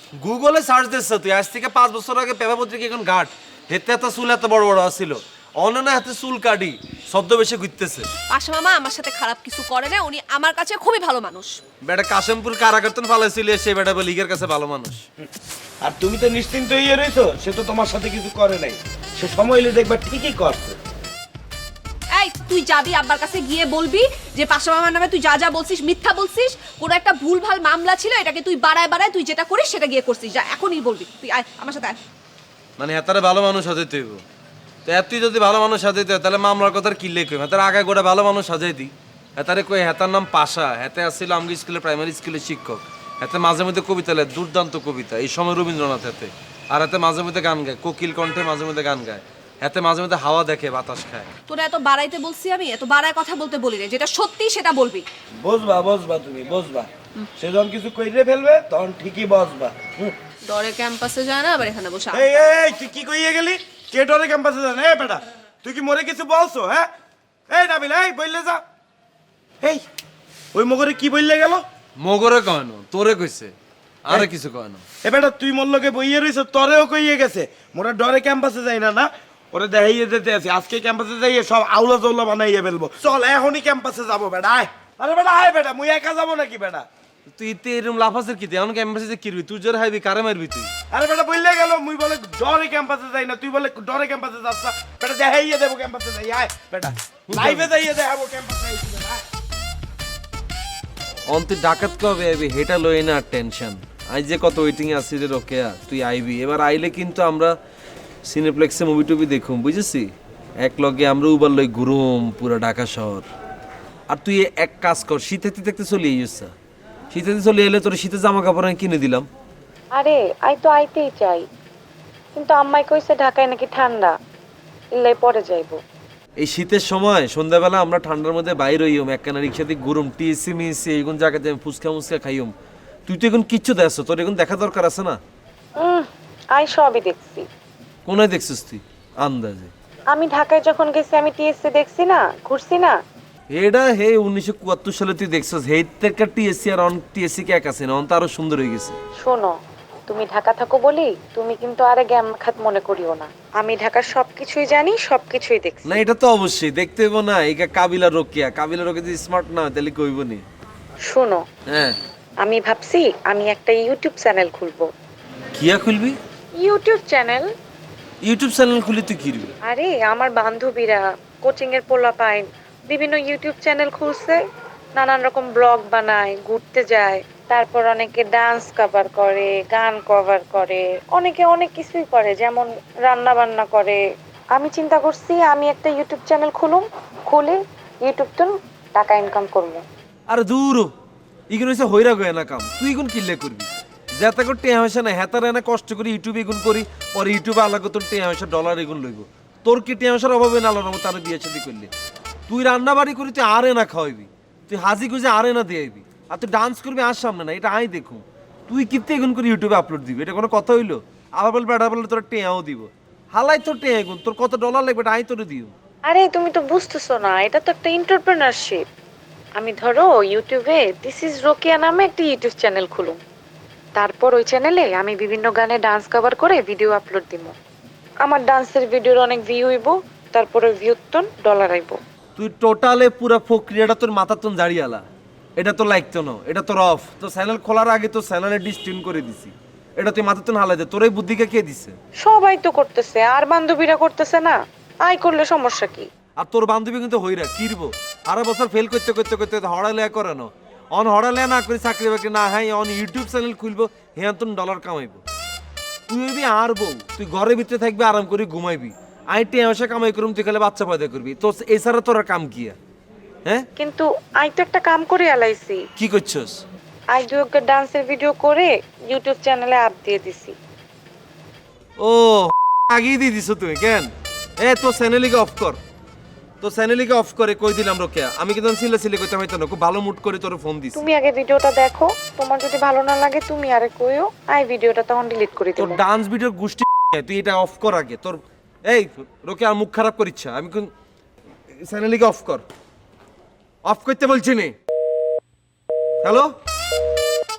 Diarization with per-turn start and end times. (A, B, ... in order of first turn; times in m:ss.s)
0:00.2-0:08.1 A
0:08.3-0:11.6 B
0:11.8-0:15.0 A
0:15.8-0:20.8 C
0:22.2-0:32.0 B
0:32.8-0:34.2 A
0:34.9-0:51.3 A
0:51.5-0:55.1 B
0:55.4-1:00.2 C
1:00.4-1:02.4 B
1:02.1-1:06.9 C
1:07.5-1:08.6 C
1:10.5-1:11.6 C
1:12.0-1:14.8 A
1:15.0-1:26.9 C
1:27.3-1:30.7 A
1:30.9-1:39.2 C
1:37.3-1:37.7 A
1:41.3-1:47.5 A
1:48.3-1:50.1 A
1:50.6-1:53.3 A
1:54.1-1:56.5 A
1:57.1-1:59.3 A
2:00.0-2:01.4 D
2:02.4-2:04.1 D
2:05.0-2:05.8 D
2:06.4-2:12.5 A
2:13.1-2:15.2 A
2:15.8-2:17.4 D
2:18.1-2:19.7 A
2:20.1-2:23.0 D
2:23.5-2:29.0 A
2:29.2-2:29.5 D
2:30.1-2:36.0 D
2:35.9-2:40.4 A
2:41.1-2:41.4 D
2:41.7-2:42.0 A
2:42.4-2:44.9 D
2:45.6-2:46.2 A
2:46.6-2:47.5 D
2:48.3-2:49.5 A
2:49.6-2:54.4 D
2:55.0-3:04.0 D
3:04.5-3:09.8 D
3:10.3-3:10.9 A
3:11.5-3:21.9 A
3:22.5-3:35.7 A
3:36.1-3:38.8 D
3:39.6-3:43.2 D
3:44.0-3:47.5 D
3:48.2-3:52.0 D
3:52.4-3:55.0 A
3:55.6-4:02.0 A
4:02.2-4:06.1 D
4:06.4-4:15.2 A
4:16.1-4:22.8 A
4:23.8-4:25.8 D
4:26.0-4:26.6 A
4:27.1-4:30.6 D
4:32.0-4:34.1 A
4:34.6-4:35.8 A
4:36.6-4:41.1 A
4:41.0-4:46.0 D
4:45.8-4:50.9 A
4:51.8-4:52.6 A
4:53.9-4:54.8 A
4:56.2-4:56.6 A